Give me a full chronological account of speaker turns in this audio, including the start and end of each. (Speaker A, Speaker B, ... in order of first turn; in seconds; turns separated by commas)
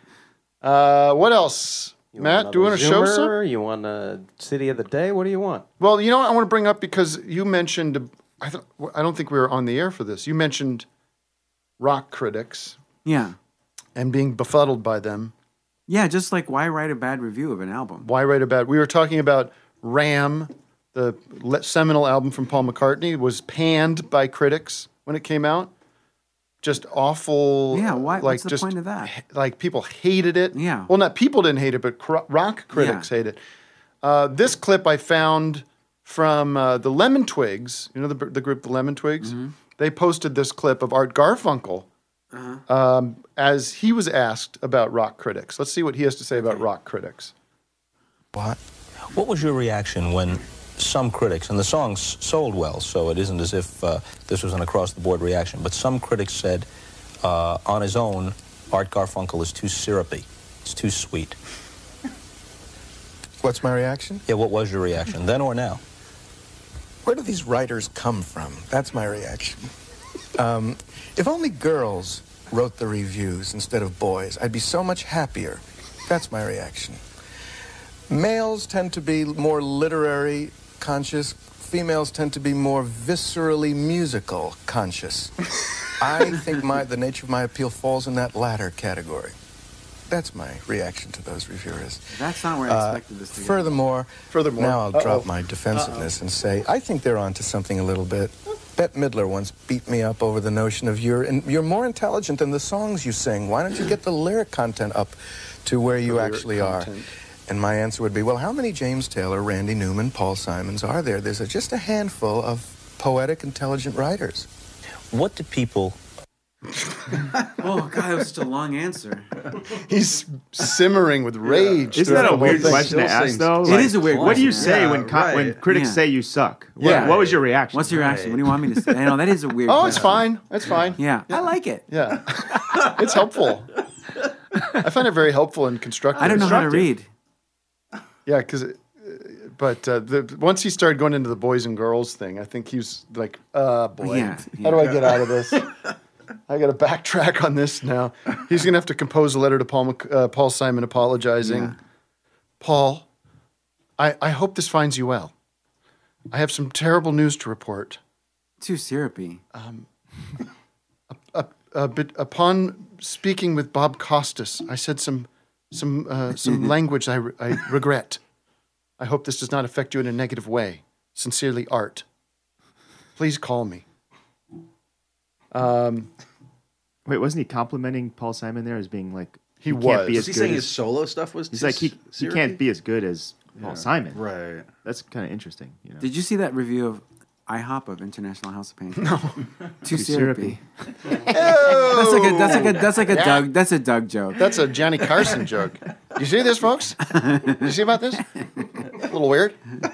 Speaker A: 0.6-3.3, Speaker B: 2.1-5.7, Speaker A: 5.8-10.8, Speaker A: 11.8-12.8, Speaker C: 13.0-13.3, Speaker A: 13.9-15.3, Speaker C: 15.9-18.1, Speaker A: 18.0-25.7, Speaker A: 26.6-33.4, Speaker C: 27.7-29.1, Speaker C: 30.5-30.9, Speaker C: 32.7-33.1, Speaker A: 34.0-41.9, Speaker C: 39.2-39.5, Speaker C: 42.3-42.6, Speaker A: 42.7-47.3, Speaker D: 48.3-48.6, Speaker E: 49.1-56.7, Speaker E: 57.2-61.4, Speaker D: 63.4-64.2, Speaker E: 64.3-65.8, Speaker D: 67.0-69.6, Speaker D: 70.3-77.0, Speaker D: 78.1-85.3, Speaker D: 86.0-89.3, Speaker D: 90.1-106.9, Speaker C: 92.1-93.6, Speaker A: 94.3-95.3, Speaker A: 106.0-107.1, Speaker D: 107.5-114.5, Speaker E: 115.1-116.0, Speaker A: 116.8-117.0, Speaker C: 117.6-119.3, Speaker A: 119.7-123.0, Speaker F: 121.4-125.6, Speaker G: 121.9-128.2, Speaker C: 123.6-124.9, Speaker C: 125.7-126.0, Speaker A: 126.8-127.1, Speaker C: 126.8-130.2, Speaker F: 127.0-127.4, Speaker F: 127.9-128.4, Speaker A: 129.7-133.7, Speaker C: 131.0-131.8, Speaker A: 134.8-136.7, Speaker C: 136.2-137.1, Speaker G: 136.2-136.9, Speaker A: 138.2-145.7, Speaker C: 144.0-145.0, Speaker A: 146.5-151.7, Speaker C: 151.4-151.8, Speaker A: 152.6-153.1, Speaker A: 154.0-155.3, Speaker A: 156.3-158.0, Speaker C: 158.6-159.4, Speaker A: 159.5-159.9, Speaker A: 161.1-168.2, Speaker A: 169.0-172.0, Speaker A: 173.2-173.8, Speaker A: 175.5-176.1, Speaker G: 177.1-180.8, Speaker A: 179.6-180.3, Speaker F: 180.1-182.6, Speaker G: 181.5-184.2, Speaker F: 183.6-184.7, Speaker G: 184.8-186.0, Speaker C: 186.0-189.1, Speaker A: 189.0-189.4, Speaker C: 189.8-190.6, Speaker G: 189.9-190.6, Speaker A: 191.3-193.4, Speaker C: 191.6-194.4, Speaker A: 194.4-198.2, Speaker C: 197.1-197.7, Speaker A: 198.9-199.6